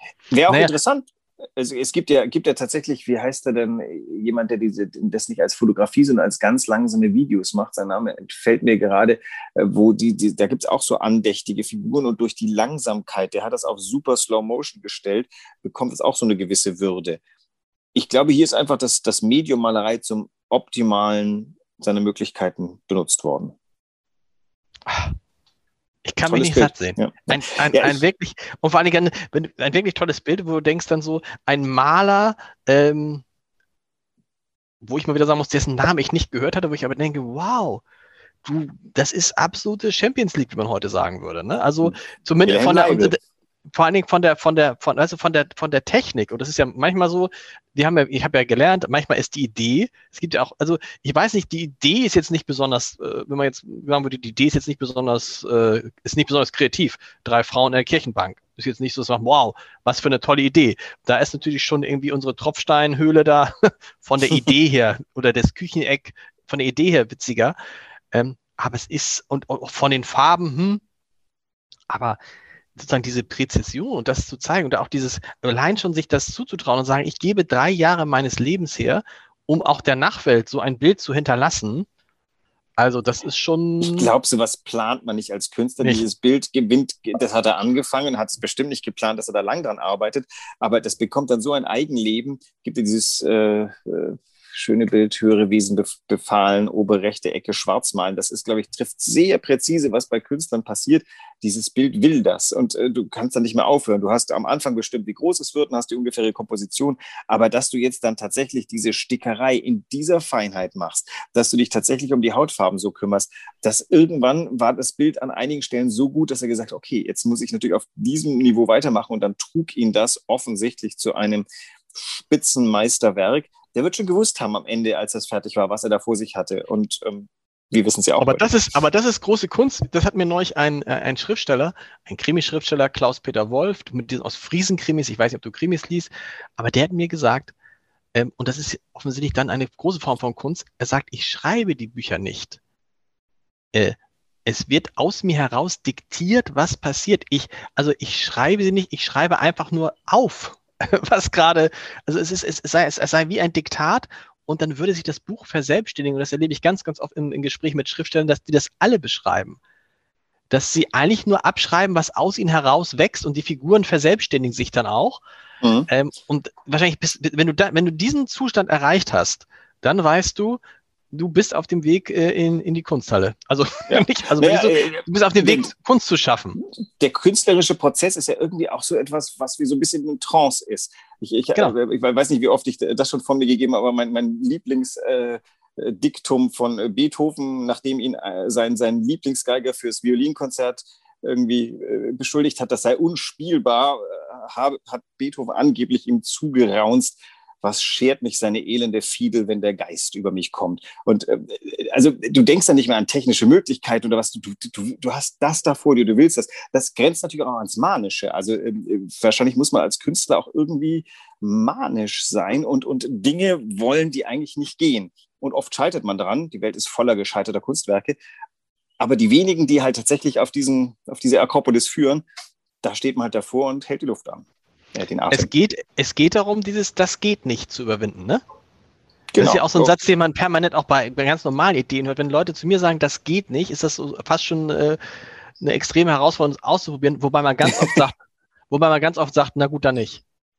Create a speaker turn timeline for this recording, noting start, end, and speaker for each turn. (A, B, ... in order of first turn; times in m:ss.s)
0:00.3-0:17.2 A
0:00.5-0:00.8 B
0:17.9-0:23.6 A
0:24.9-0:25.2 B
0:26.0-0:33.2 B
0:26.3-0:28.0 A
0:34.8-0:37.8 B
0:38.4-0:43.2 B
0:41.8-0:43.2 A
0:43.7-1:07.6 B
1:08.1-1:10.8 B
1:11.9-1:12.2 B
1:12.8-1:21.9 B
1:22.8-1:24.1 B
1:23.8-2:08.5 A
2:08.2-2:17.5 B
2:18.2-2:22.6 B
2:23.7-2:39.6 B
2:40.5-2:45.2 B
2:45.6-2:45.9 A
2:45.9-2:50.6 B
2:51.1-2:56.6 B
2:53.9-2:55.7 A
2:57.0-3:38.2 A
3:39.0-3:42.2 A
3:42.8-3:45.5 A
3:45.3-3:48.4 B
3:49.3-3:49.9 A
3:49.4-3:55.0 B
3:55.6-3:58.2 B
3:58.7-4:00.2 B